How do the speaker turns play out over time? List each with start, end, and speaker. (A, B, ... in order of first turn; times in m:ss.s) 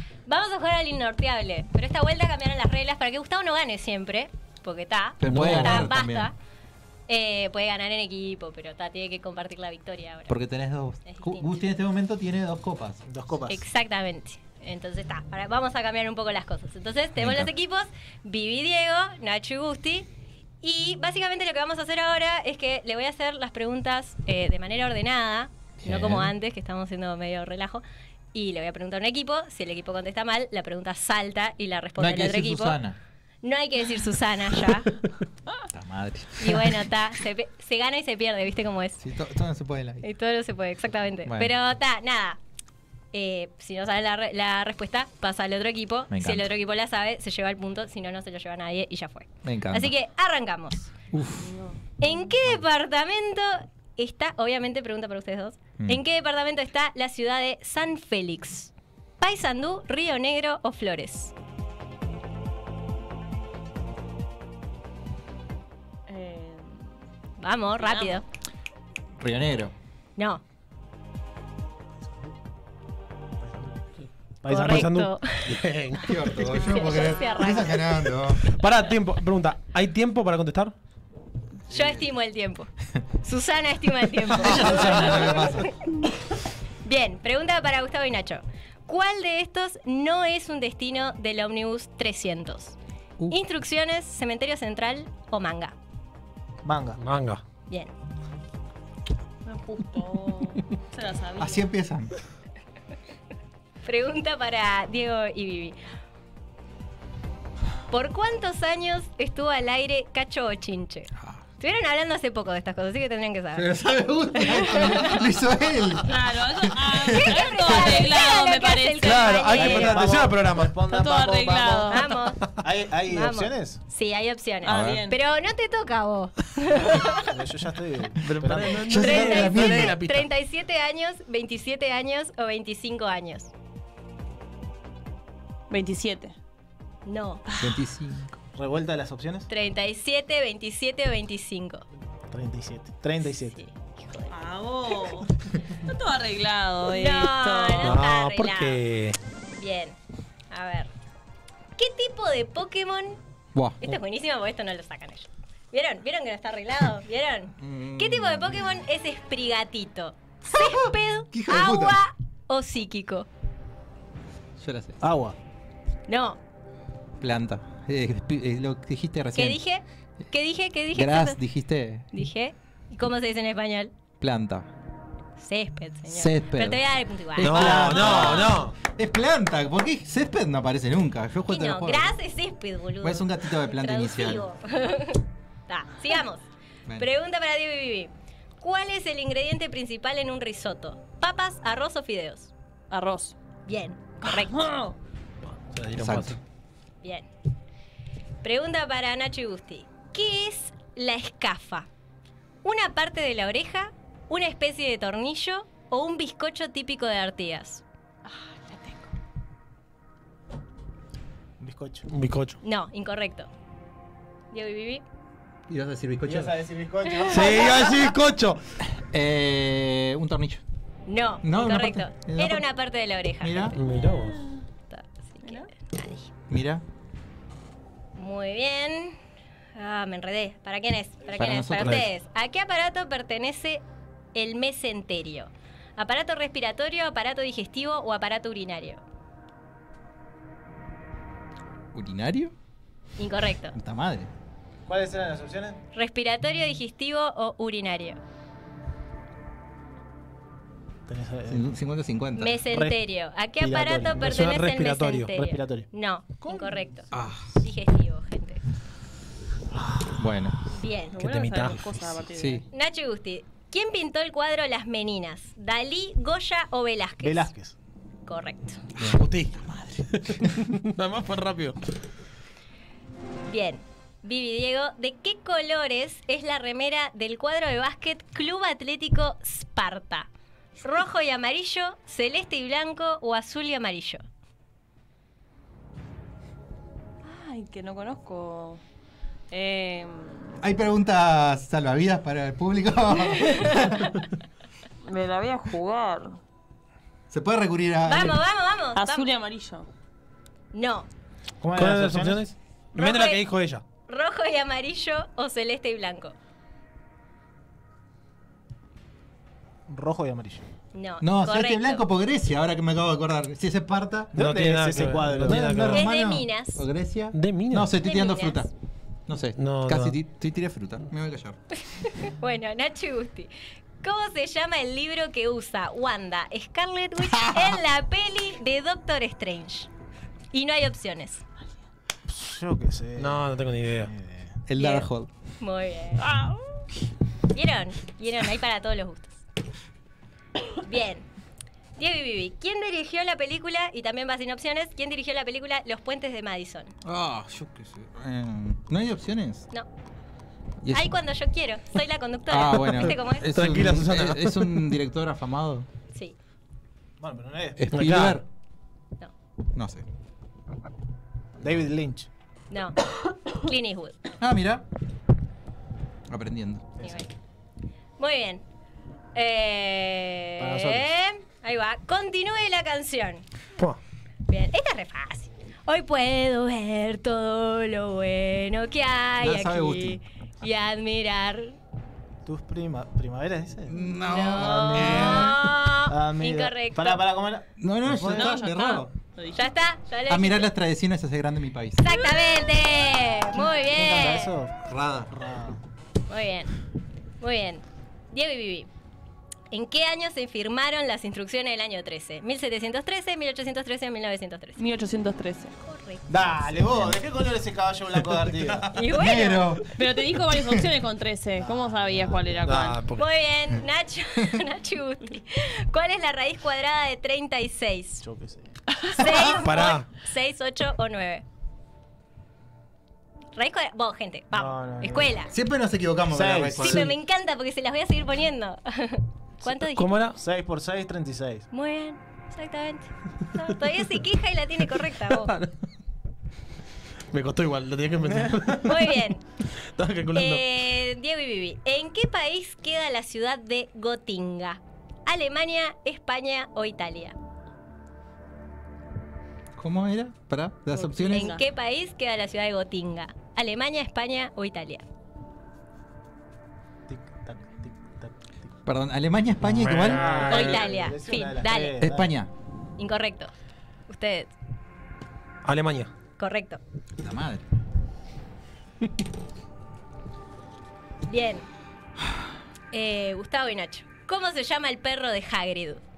0:00.3-0:06.4 A
0:05.2-0:06.3 B
0:05.3-0:05.9 C
0:07.1-0:10.4 A
0:10.3-0:13.0 B
0:11.0-0:11.5 A
0:13.1-0:13.6 D
0:13.5-0:20.1 A
0:17.2-0:17.5 B
0:20.6-0:32.8 A
0:25.8-0:26.3 B
0:32.0-0:33.0 B
0:33.4-0:34.9 A
0:35.7-0:36.9 B
0:36.4-0:39.0 A
0:39.0-0:40.0 B
0:40.0-0:42.4 A
0:41.3-0:41.6 B
0:43.1-0:50.9 A
0:46.1-0:46.5 B
0:49.4-0:50.0 B
0:51.4-0:52.1 E
0:52.0-1:01.3 A
1:06.1-1:06.9 E
1:07.4-1:08.2 A
1:07.8-1:08.2 E
1:09.2-1:09.7 B
1:10.2-1:10.4 A
1:13.5-1:13.7 D
1:14.4-1:14.9 D
1:14.5-1:15.6 A
1:14.5-1:16.1 C
1:16.0-1:18.4 B
1:16.5-1:18.2 A
1:18.5-1:20.8 C
1:21.7-1:22.7 A
1:21.7-1:22.0 B
1:23.2-1:25.7 A
1:24.3-1:25.7 B
1:26.8-1:32.8 A
1:33.3-1:35.8 A
1:36.6-1:37.0 D
1:37.0-1:37.4 C
1:39.5-1:41.7 E
1:41.4-1:42.1 B
1:43.8-1:45.8 A
1:47.9-1:53.7 A
1:53.5-1:56.1 B
1:54.3-1:55.2 A
1:56.0-1:59.8 E
1:56.7-1:57.3 B
1:57.1-2:00.1 A
1:59.0-2:00.7 C
1:59.5-2:02.1 D
2:00.9-2:02.1 E
2:01.9-2:02.5 A
2:02.6-2:03.8 D
2:03.1-2:07.3 A
2:04.6-2:05.2 E
2:04.7-2:05.0 B
2:07.2-2:09.0 D
2:08.2-2:10.3 C
2:08.9-2:13.5 A
2:08.9-2:10.0 B
2:15.7-2:16.4 E
2:17.0-2:17.4 A
2:17.6-2:18.4 B
2:18.6-2:19.5 D
2:19.5-2:21.8 A
2:22.3-2:23.6 D
2:23.5-2:24.3 A
2:24.3-2:28.0 E
2:26.9-2:28.8 A
2:27.8-2:29.2 C
2:29.6-2:30.0 A
2:30.5-2:30.9 A
2:31.8-2:33.2 A
2:33.6-2:33.9 B
2:33.8-2:43.3 A
2:37.6-2:38.8 B
2:40.5-2:42.0 B
2:44.6-2:45.0 B
2:45.0-2:45.4 D
2:46.1-2:46.4 A
2:47.2-2:49.6 B
2:49.4-2:51.4 A
2:50.9-2:52.1 B
2:52.1-2:53.9 A
2:54.2-2:54.7 B
2:55.4-2:58.6 A
2:56.1-3:02.2 B
2:57.4-2:58.7 C
3:01.5-3:06.4 A
3:03.0-3:04.5 B
3:07.0-3:12.5 A
3:12.9-3:13.4 E
3:13.7-3:14.7 A
3:14.2-3:15.0 E
3:15.7-3:16.4 C
3:16.0-3:16.4 B
3:17.0-3:17.3 A
3:18.4-3:21.9 A
3:22.6-3:27.8 A
3:28.3-3:29.1 E
3:31.6-3:32.1 D
3:32.1-3:32.6 C
3:32.6-3:33.5 A
3:34.5-3:35.0 A
3:35.7-3:36.6 B
3:36.2-3:38.0 D
3:37.3-3:38.6 C
3:39.1-3:40.6 B
3:41.1-3:43.8 A
3:41.4-3:42.7 B
3:43.4-3:43.8 B
3:43.8-3:44.4 C
3:44.9-3:46.3 A
3:45.4-3:45.7 E
3:46.5-3:46.8 B
3:48.2-3:49.2 A
3:49.8-3:53.8 A
3:51.3-3:52.1 B
3:54.4-3:59.0 A
4:01.9-4:02.5 B
4:03.2-4:03.8 A
4:03.8-4:04.3 B
4:04.9-4:05.8 D
4:05.9-4:08.2 A
4:11.1-4:11.7 D
4:11.5-4:12.6 B
4:12.4-4:18.6 A
4:12.7-4:13.0 D
4:13.6-4:14.4 D
4:14.2-4:15.3 C
4:15.3-4:15.9 D
4:16.4-4:16.7 D
4:17.1-4:17.5 B
4:20.2-4:20.6 B
4:20.7-4:21.2 A
4:21.1-4:22.7 E
4:21.2-4:22.1 C
4:22.4-4:22.6 B
4:22.7-4:27.5 A
4:27.2-4:27.8 D
4:28.3-4:28.8 A
4:29.0-4:31.8 C
4:29.0-4:30.0 B
4:33.5-4:40.3 A
4:40.8-4:44.2 A
4:47.2-4:48.8 E
4:49.5-4:50.6 E
4:50.6-4:54.1 B
4:53.5-4:53.9 A
4:55.0-4:56.4 E
4:57.3-4:58.4 B
4:58.0-4:59.3 A
4:59.0-4:59.9 E
5:00.7-5:01.1 A
5:01.6-5:02.4 D
5:01.8-5:03.8 C
5:03.0-5:03.4 A
5:04.1-5:06.4 A
5:09.9-5:10.6 D
5:10.9-5:12.0 A
5:11.2-5:14.4 B
5:14.3-5:16.0 D
5:14.4-5:16.0 C
5:15.4-5:18.7 B
5:15.9-5:16.8 A
5:17.3-5:17.9 C
5:18.0-5:18.7 A
5:19.3-5:21.6 B
5:19.6-5:20.2 C
5:22.2-5:29.9 A
5:27.2-5:27.8 B
5:30.5-5:31.4 A
5:32.3-5:34.6 D
5:33.2-5:34.1 C
5:34.7-5:35.3 B
5:34.8-5:35.1 A
5:35.6-5:36.2 A
5:36.2-5:36.6 E
5:37.5-5:39.4 A
5:40.8-5:41.3 A
5:42.0-5:46.9 A
5:47.0-5:49.7 B
5:50.8-5:51.2 B
5:50.9-5:53.5 A
5:52.5-5:55.9 B
5:53.5-5:54.9 C
5:57.2-5:57.8 D
5:57.8-5:58.4 B
5:57.9-5:58.4 C
5:59.8-6:00.0 B
6:01.6-6:02.3 D
6:02.7-6:03.0 A
6:03.6-6:04.2 A
6:04.4-6:04.8 B
6:06.3-6:07.0 B
6:07.0-6:07.3 A
6:08.2-6:08.6 A
6:09.4-6:13.4 A
6:10.6-6:11.1 D
6:14.5-6:21.8 A
6:19.4-6:20.2 B
6:22.4-6:24.0 D
6:23.9-6:25.6 B
6:24.2-6:27.2 A
6:24.6-6:25.6 D
6:26.1-6:28.6 D
6:27.8-6:29.1 B
6:28.3-6:29.7 E
6:29.5-6:30.7 A
6:30.3-6:32.1 B
6:32.0-6:34.5 A
6:33.9-6:35.8 D
6:34.9-6:35.3 B
6:36.3-6:36.7 A
6:37.4-6:38.9 A
6:39.7-6:44.8 A
6:44.8-6:45.8 E
6:45.8-6:46.8 A
6:46.3-6:48.9 D
6:48.9-6:49.8 A
6:48.9-6:49.9 B
6:50.0-6:53.0 E
6:51.6-6:52.9 D
6:52.7-6:53.2 C
6:53.2-6:58.2 A
6:58.2-6:58.7 D
6:59.1-7:01.4 A
6:59.2-6:59.6 B
6:59.6-7:00.1 C
7:03.6-7:05.5 A
7:04.5-7:05.4 D
7:05.5-7:07.2 B
7:06.3-7:07.1 D
7:06.8-7:10.2 A
7:09.9-7:10.4 C
7:10.4-7:11.7 D
7:11.7-7:15.6 A
7:15.3-7:15.7 C
7:17.3-7:19.2 C
7:18.8-7:19.4 A
7:20.0-7:20.6 C
7:20.3-7:27.4 A
7:29.8-7:31.6 B
7:31.0-7:31.6 E
7:31.2-7:35.0 A
7:37.1-7:38.7 D
7:38.9-7:40.4 B
7:39.6-7:40.8 C
7:40.0-7:42.3 D
7:40.5-7:42.0 A
7:42.0-7:42.5 B
7:43.0-7:43.5 A
7:44.1-7:44.5 A
7:45.6-7:46.1 C
7:46.4-7:46.8 A
7:47.2-7:47.6 B
7:51.3-7:51.7 A
7:52.9-7:56.0 A